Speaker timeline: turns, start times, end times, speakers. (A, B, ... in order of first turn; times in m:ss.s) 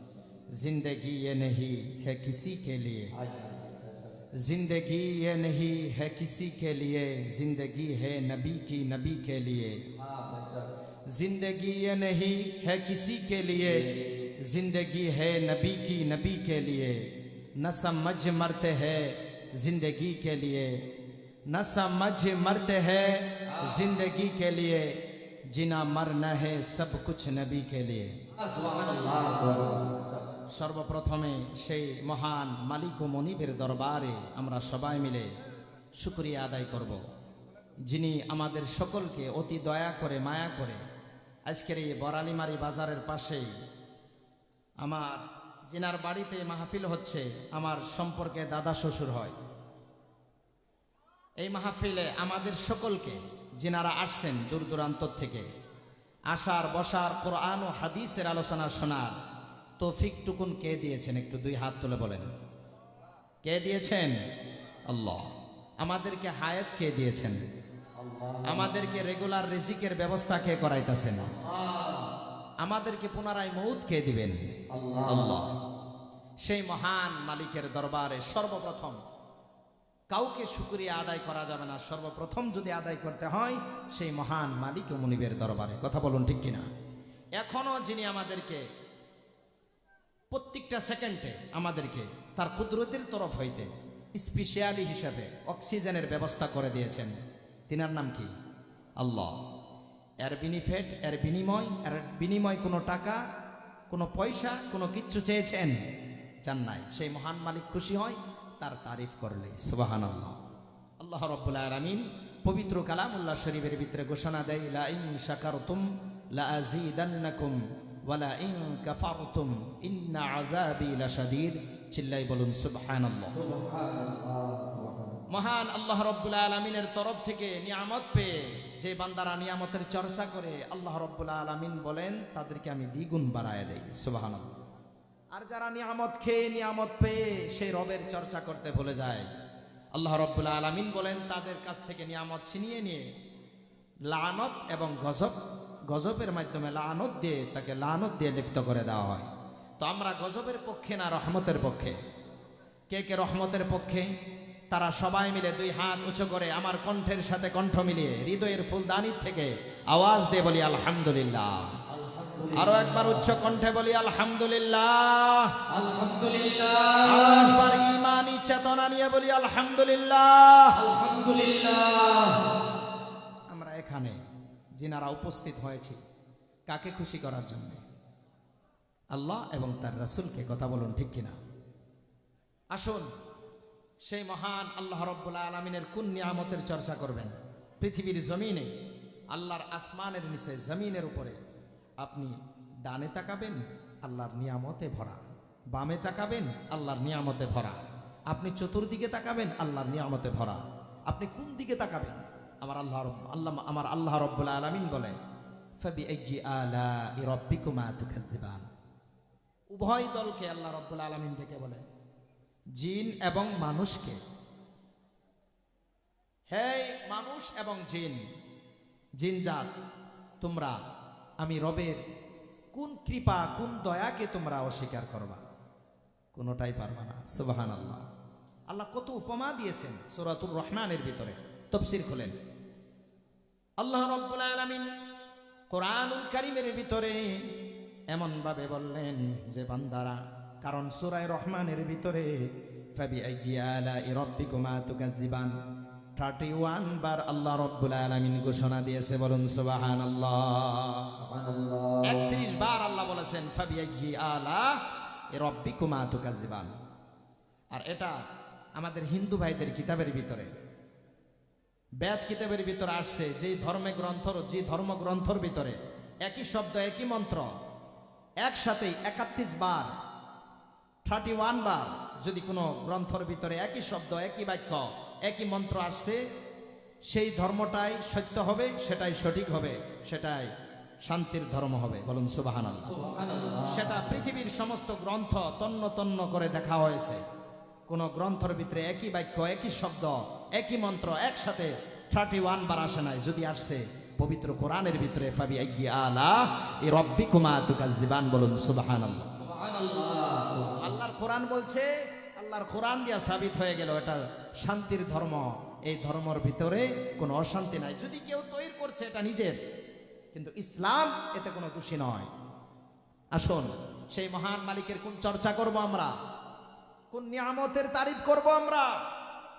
0:00.5-0:03.1 A
0:03.1-0:04.2 B
0:04.4-0:09.8 A
0:10.0-0:10.7 B
0:11.1-0:17.0 A
0:13.6-0:14.1 B
0:17.6-0:20.7 A
0:21.5-0:24.8 A
0:23.6-0:23.8 B
0:25.5-0:28.1 A
0:28.3-0:30.2 B
0:30.6-0:35.3 A
0:36.0-0:37.0 A
0:37.9-0:40.8 A
0:41.5-0:43.5 A
0:44.8-0:49.3 A
0:51.4-0:55.4 A
0:56.3-0:59.1 A
0:59.8-1:02.3 A
1:03.4-1:04.1 A
1:04.9-1:05.2 A
1:05.8-1:07.4 A
1:08.0-1:08.8 B
1:08.4-1:11.4 A
1:11.4-1:12.1 B
1:12.6-1:14.4 A
1:14.7-1:15.4 B
1:15.1-1:15.5 A
1:16.4-1:19.0 A
1:20.1-1:26.6 A
1:27.4-1:28.6 A
1:30.3-1:37.1 A
1:37.7-1:38.3 A
1:39.0-1:39.3 A
1:40.2-1:43.2 A
1:43.9-1:45.8 A
1:46.4-1:50.4 A
1:51.0-1:55.8 A
1:56.3-2:03.3 A
2:03.3-2:05.2 B
2:05.3-2:14.5 A
2:15.3-2:19.3 A
2:20.0-2:23.0 A
2:24.1-2:25.4 A
2:25.9-2:29.3 A
2:29.8-2:32.0 A
2:32.9-2:34.0 A
2:34.7-2:41.7 A
2:41.9-2:43.3 B
2:42.5-2:45.5 A
2:45.7-2:47.7 B
2:47.0-2:50.8 A
2:50.7-2:52.5 B
2:53.5-2:54.2 A
2:54.8-2:56.0 A
2:56.7-2:57.8 A
2:59.1-3:01.4 A
3:02.7-3:03.1 A
3:04.1-3:08.7 A
3:09.3-3:11.4 A
3:12.0-3:12.3 A
3:12.8-3:15.2 A
3:15.7-3:17.8 A
3:18.3-3:25.1 A
3:25.8-3:28.7 A
3:29.7-3:31.8 A
3:32.8-3:34.2 A
3:36.5-3:38.2 A
3:39.2-3:39.7 A
3:40.4-3:40.8 A
3:41.4-3:42.0 A
3:42.7-3:45.4 A
3:46.3-3:48.0 A
3:48.7-3:52.3 A
3:53.8-3:54.9 A
3:55.7-3:57.4 A
3:58.1-4:02.3 A
4:03.0-4:05.5 A
4:06.2-4:11.1 A
4:11.2-4:12.4 B
4:12.0-4:14.7 A
4:15.3-4:16.7 A
4:17.7-4:18.1 A
4:18.8-4:20.5 A
4:22.0-4:27.4 A
4:28.4-4:29.9 A
4:31.0-4:36.2 A
4:37.1-4:40.5 A
4:41.0-4:42.9 A
4:42.9-4:44.2 B
4:43.7-4:47.2 A
4:47.9-4:59.3 A
4:59.4-5:00.9 B
5:00.7-5:09.6 A
5:10.3-5:12.3 A
5:13.4-5:16.1 A
5:17.1-5:18.9 A